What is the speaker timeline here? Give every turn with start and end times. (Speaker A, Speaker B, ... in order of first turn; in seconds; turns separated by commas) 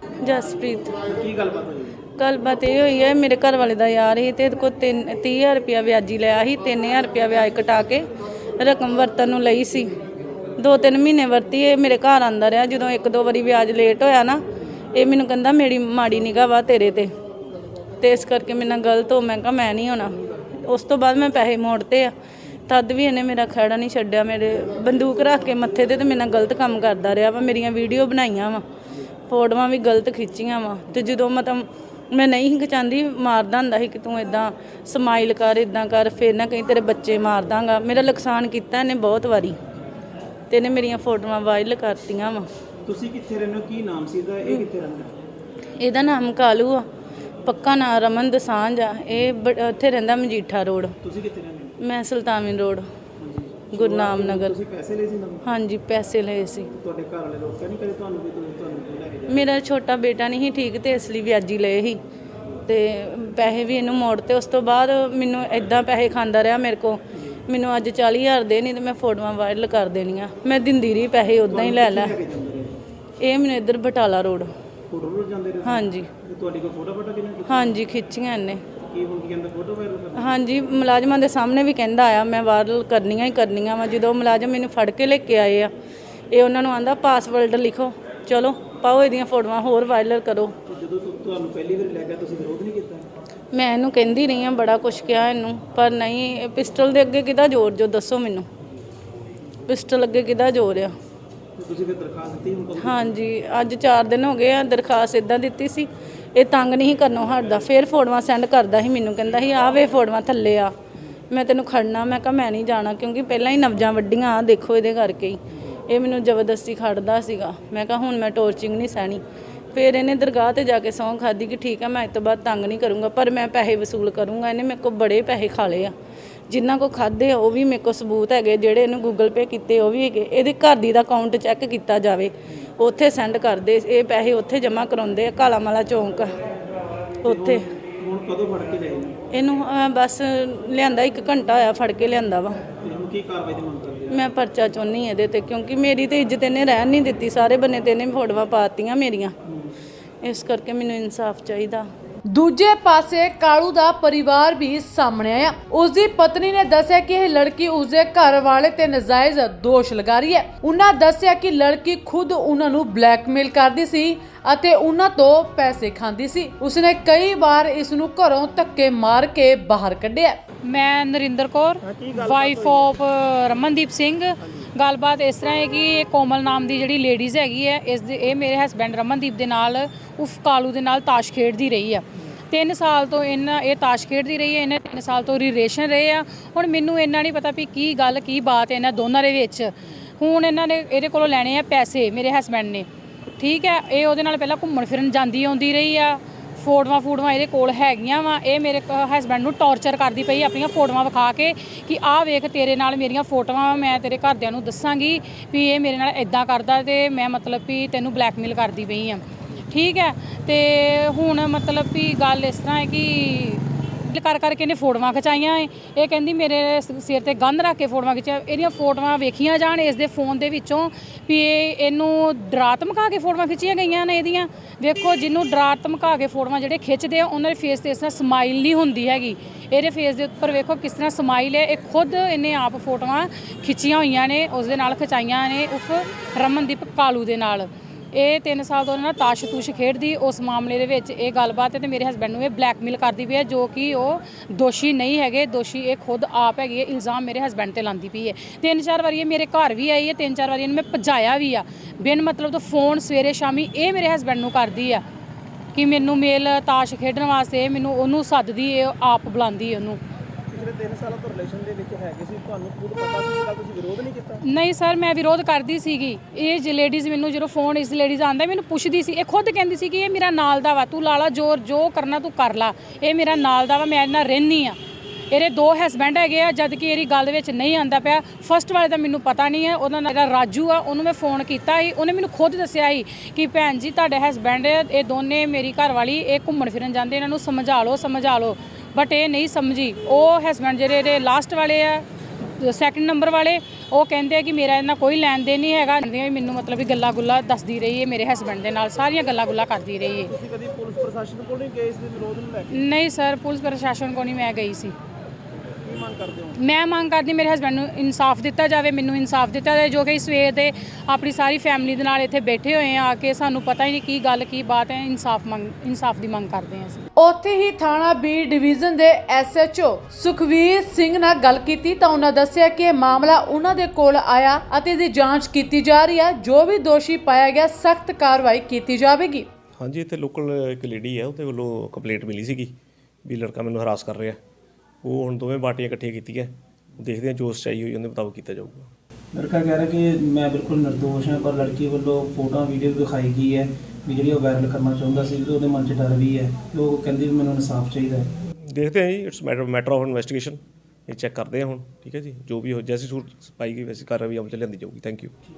Speaker A: 0.2-1.0, Speaker B: 1.1-2.1, Speaker A: 2.1-9.9, Speaker A: 10.6-17.1, Speaker A: 18.0-22.1, Speaker A: 22.7-28.6, Speaker A: 29.3-39.6, Speaker A: 40.5-42.5, Speaker B: 42.9-45.1, Speaker A: 45.8-46.9, Speaker A: 47.4-51.0, Speaker B: 51.0-51.8, Speaker A: 51.8-52.9, Speaker B: 53.2-55.4, Speaker A: 53.7-54.6, Speaker A: 55.4-56.7, Speaker B: 56.7-59.5, Speaker A: 59.3-62.0, Speaker A: 62.6-72.2, Speaker B: 71.5-72.8, Speaker A: 73.2-74.5, Speaker B: 74.9-77.8, Speaker A: 75.6-76.1, Speaker A: 77.5-78.7, Speaker B: 78.7-80.4, Speaker A: 80.2-85.7, Speaker A: 86.3-90.6, Speaker B: 90.6-93.1, Speaker A: 93.5-98.5, Speaker A: 99.7-101.0, Speaker B: 101.6-103.2, Speaker A: 102.8-110.7, Speaker A: 111.3-119.2, Speaker A: 119.7-125.9, Speaker A: 126.5-136.3, Speaker A: 137.2-137.6, Speaker B: 137.2-139.2, Speaker A: 139.3-142.6, Speaker B: 142.7-144.2, Speaker A: 144.1-149.3, Speaker B: 149.5-149.7, Speaker A: 150.2-151.9, Speaker C: 152.3-170.4, Speaker D: 170.6-192.8, Speaker B: 171.8-173.0, Speaker B: 174.4-174.7, Speaker D: 193.4-255.0, Speaker D: 255.7-260.0, Speaker B: 260.5-264.4, Speaker D: 264.4-274.8, Speaker D: 275.3-292.0, Speaker D: 292.6-300.3, Speaker B: 300.2-302.7, Speaker D: 302.7-304.9, Speaker B: 305.8-306.6, Speaker D: 306.6-317.0, Speaker C: 317.2-329.5, Speaker E: 329.8-334.4, Speaker E: 335.0-338.9, Speaker B: 339.3-348.3, Speaker E: 348.7-355.3